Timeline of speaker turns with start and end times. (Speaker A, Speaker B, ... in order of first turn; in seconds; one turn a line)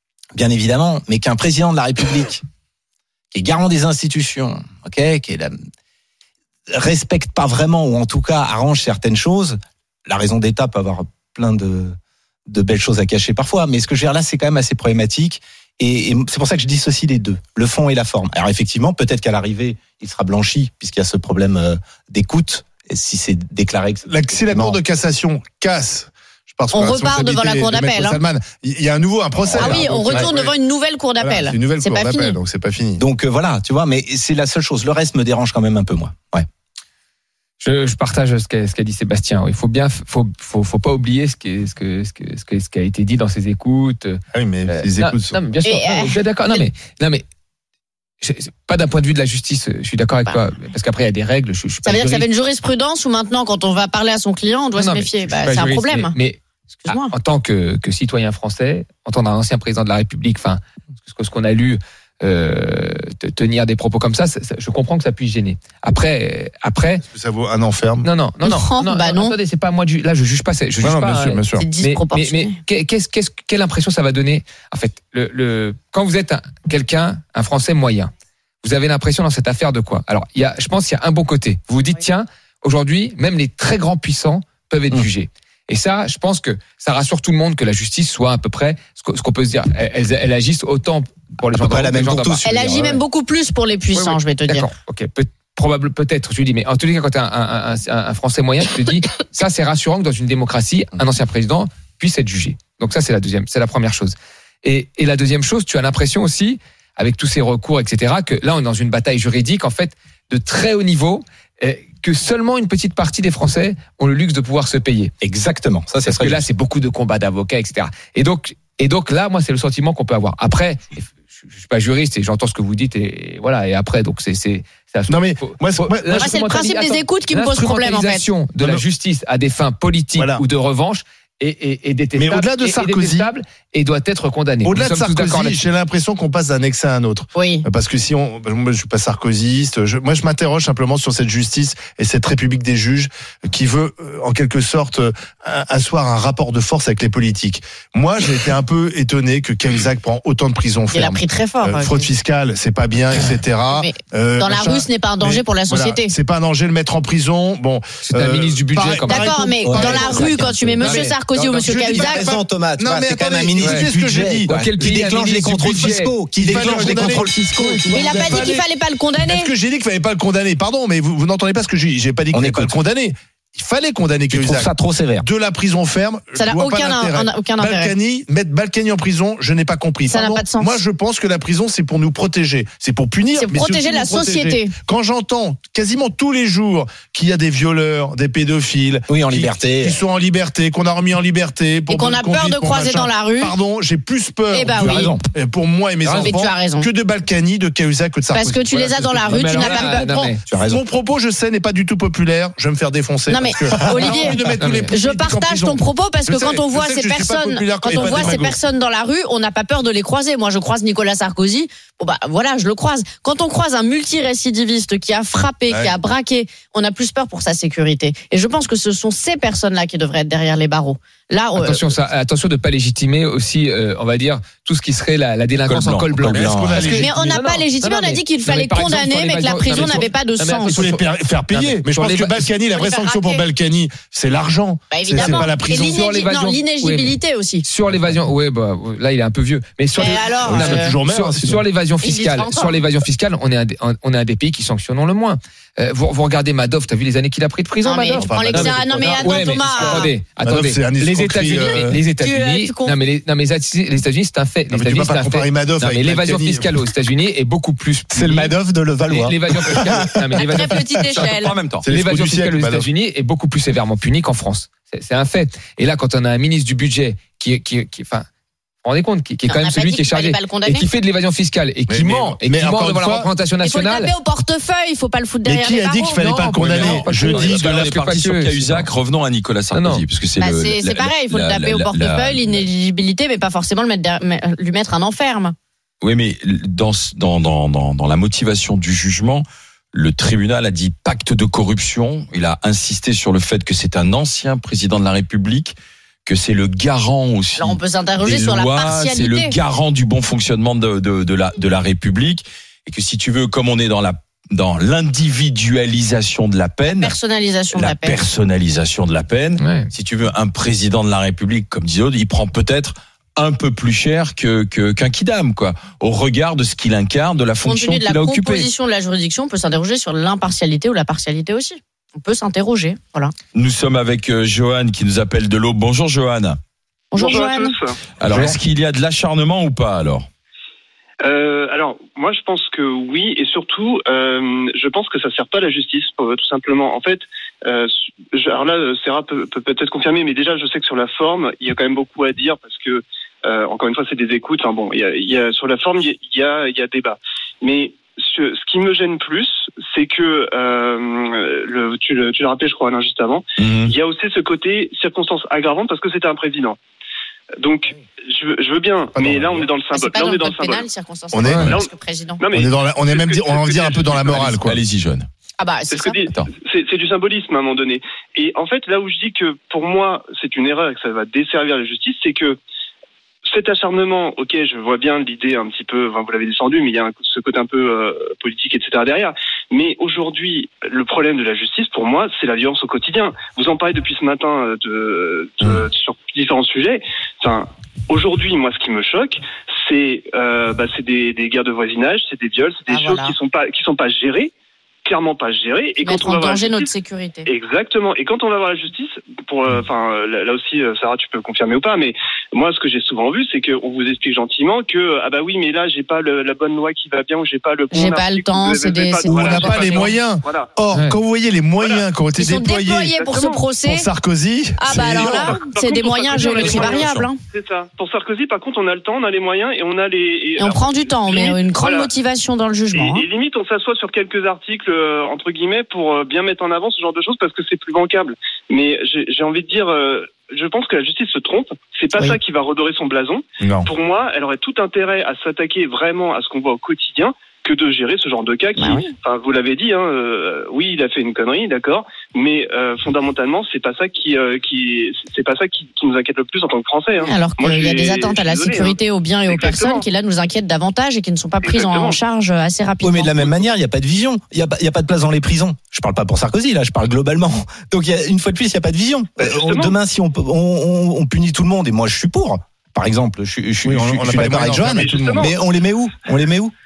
Speaker A: 0.3-2.4
Speaker A: 3.3-5.6
Speaker A: 6.7-12.0
Speaker A: 12.5-24.8
Speaker B: 24.1-30.5
Speaker C: 26.7-28.2
Speaker C: 29.5-32.4
Speaker A: 29.6-29.9
Speaker B: 31.2-33.0
Speaker A: 33.0-36.5
Speaker D: 37.6-47.2
Speaker B: 44.3-45.4
Speaker C: 45.6-46.6
Speaker D: 48.2-52.3
Speaker C: 51.9-56.1
Speaker D: 54.8-67.0
Speaker C: 56.9-57.1
Speaker B: 67.0-68.1
Speaker D: 68.0-78.1
Speaker C: 68.4-69.4
Speaker B: 70.8-71.7
Speaker C: 71.5-72.5
Speaker D: 78.6-93.0
Speaker A: 91.6-92.6
Speaker C: 92.4-94.7
Speaker D: 94.0-115.1
Speaker A: 115.2-116.5
Speaker D: 116.0-135.6
Speaker B: 125.1-126.3
Speaker C: 126.1-128.3
Speaker B: 130.2-130.4
Speaker B: 132.2-133.3
Speaker B: 134.6-161.1
Speaker C: 137.4-137.7
Speaker C: 150.9-152.1
Speaker C: 153.7-156.1
Speaker D: 158.0-161.2
Speaker C: 159.0-162.3
Speaker A: 161.4-168.4
Speaker B: 161.6-164.6
Speaker D: 161.8-162.1
Speaker D: 163.6-163.9
Speaker D: 164.5-166.2
Speaker B: 166.4-168.7
Speaker C: 167.9-169.5
Speaker B: 169.3-200.1
Speaker A: 172.3-172.8
Speaker A: 174.3-175.3
Speaker C: 176.4-177.9
Speaker C: 180.1-180.8
Speaker C: 183.3-184.7
Speaker A: 189.1-190.0
Speaker C: 191.9-193.6
Speaker C: 194.5-195.1
Speaker A: 194.8-195.2
Speaker D: 196.1-196.3
Speaker C: 196.2-196.9
Speaker C: 198.3-200.4
Speaker D: 199.3-200.4
Speaker A: 200.5-200.8
Speaker B: 200.7-208.6
Speaker C: 203.3-221.9
Speaker D: 204.6-204.9
Speaker D: 221.6-232.5
Speaker E: 225.7-226.9
Speaker B: 226.3-227.1
Speaker C: 227.0-230.9
Speaker B: 229.7-230.0
Speaker B: 230.7-236.3
Speaker C: 232.7-233.4
Speaker C: 234.9-237.6
Speaker D: 235.2-258.6
Speaker C: 240.0-240.9
Speaker B: 240.4-241.6
Speaker C: 242.0-242.8
Speaker C: 247.8-250.1
Speaker B: 248.2-252.0
Speaker C: 252.2-253.0
Speaker B: 254.7-256.7
Speaker A: 258.1-260.0
Speaker D: 259.1-261.0
Speaker C: 260.4-261.6
Speaker E: 261.2-261.9
Speaker B: 261.8-262.9
Speaker D: 261.9-268.3
Speaker D: 268.8-274.1
Speaker C: 269.4-270.9
Speaker B: 271.9-273.3
Speaker C: 273.6-277.4
Speaker B: 275.4-277.8
Speaker D: 276.2-278.9
Speaker E: 276.6-282.7
Speaker D: 279.7-280.1
Speaker C: 280.4-285.6
Speaker E: 286.0-307.2
Speaker C: 297.6-299.6
Speaker C: 306.9-308.3
Speaker E: 307.7-318.7
Speaker D: 309.6-309.9
Speaker C: 317.6-323.3
Speaker E: 323.5-326.6
Speaker C: 327.1-327.8
Speaker F: 327.2-328.0
Speaker E: 328.2-330.3
Speaker F: 331.2-356.8
Speaker E: 353.6-353.9
Speaker F: 357.6-360.9
Speaker B: 359.1-359.7
Speaker C: 359.9-362.4
Speaker B: 361.3-361.7
Speaker E: 361.5-361.7
Speaker F: 361.5-364.4
Speaker B: 362.5-364.8
Speaker E: 364.2-365.3
Speaker C: 365.6-366.2
Speaker F: 365.9-372.6
Speaker F: 373.5-394.5
Speaker C: 392.9-393.4
Speaker F: 395.1-396.9
Speaker C: 396.0-397.5
Speaker F: 397.5-410.7
Speaker C: 407.9-410.1
Speaker B: 409.3-413.1
Speaker C: 412.4-414.1
Speaker F: 413.0-413.7
Speaker B: 413.8-415.6
Speaker C: 414.8-417.4
Speaker F: 415.0-422.1
Speaker E: 416.4-417.3
Speaker C: 420.6-423.2
Speaker F: 422.9-450.0
Speaker B: 433.6-433.9
Speaker C: 438.8-439.1
Speaker C: 447.2-453.6
Speaker F: 451.6-452.2
Speaker A: 453.0-466.7
Speaker F: 459.4-460.0
Speaker B: 463.9-465.5
Speaker F: 464.9-465.6